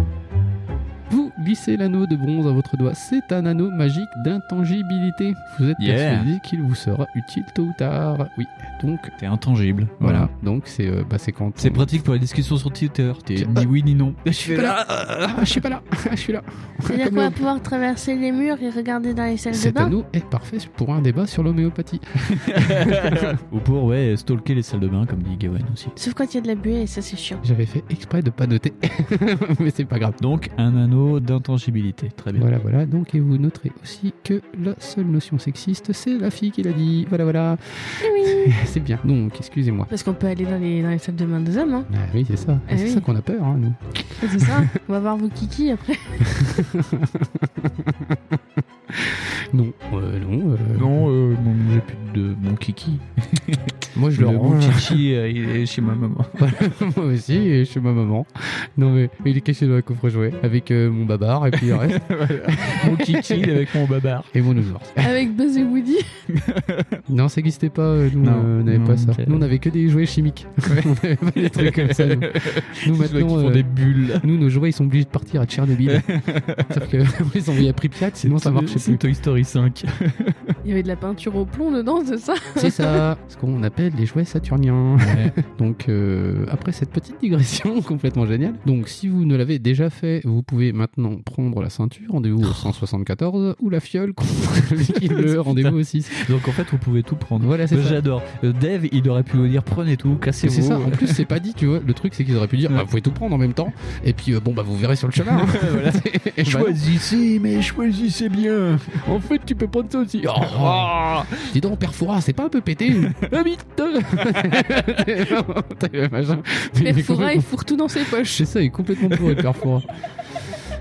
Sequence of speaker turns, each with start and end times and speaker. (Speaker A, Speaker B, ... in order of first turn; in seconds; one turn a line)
Speaker A: 1.1-9.1
Speaker B: 5.8-6.3
Speaker B: 9.2-10.3
Speaker A: 10.0-11.9
Speaker B: 11.6-15.6
Speaker A: 13.4-13.7
Speaker A: 14.4-17.4
Speaker C: 16.9-19.9
Speaker A: 19.5-23.4
Speaker B: 22.3-25.9
Speaker C: 25.9-27.4
Speaker A: 27.4-30.2
Speaker B: 30.2-32.5
Speaker A: 32.4-39.9
Speaker C: 38.0-38.6
Speaker C: 39.9-41.9
Speaker A: 41.9-44.7
Speaker C: 42.7-43.1
Speaker C: 44.2-46.5
Speaker A: 46.2-51.1
Speaker B: 50.8-56.6
Speaker A: 53.9-55.0
Speaker A: 56.4-63.5
Speaker B: 61.6-64.3
Speaker A: 64.3-65.2
Speaker C: 65.0-66.2
Speaker B: 66.3-67.0
Speaker A: 67.1-79.0
Speaker B: 68.2-69.5
Speaker B: 70.7-74.3
Speaker B: 75.9-76.8
Speaker B: 78.2-80.6
Speaker C: 80.6-83.0
Speaker A: 82.6-96.3
Speaker B: 85.0-85.4
Speaker B: 92.4-92.7
Speaker B: 94.8-101.2
Speaker A: 97.4-98.0
Speaker A: 100.4-106.8
Speaker B: 105.3-109.1
Speaker A: 109.0-117.5
Speaker B: 110.4-111.5
Speaker C: 116.8-118.5
Speaker A: 118.2-119.9
Speaker B: 119.1-119.4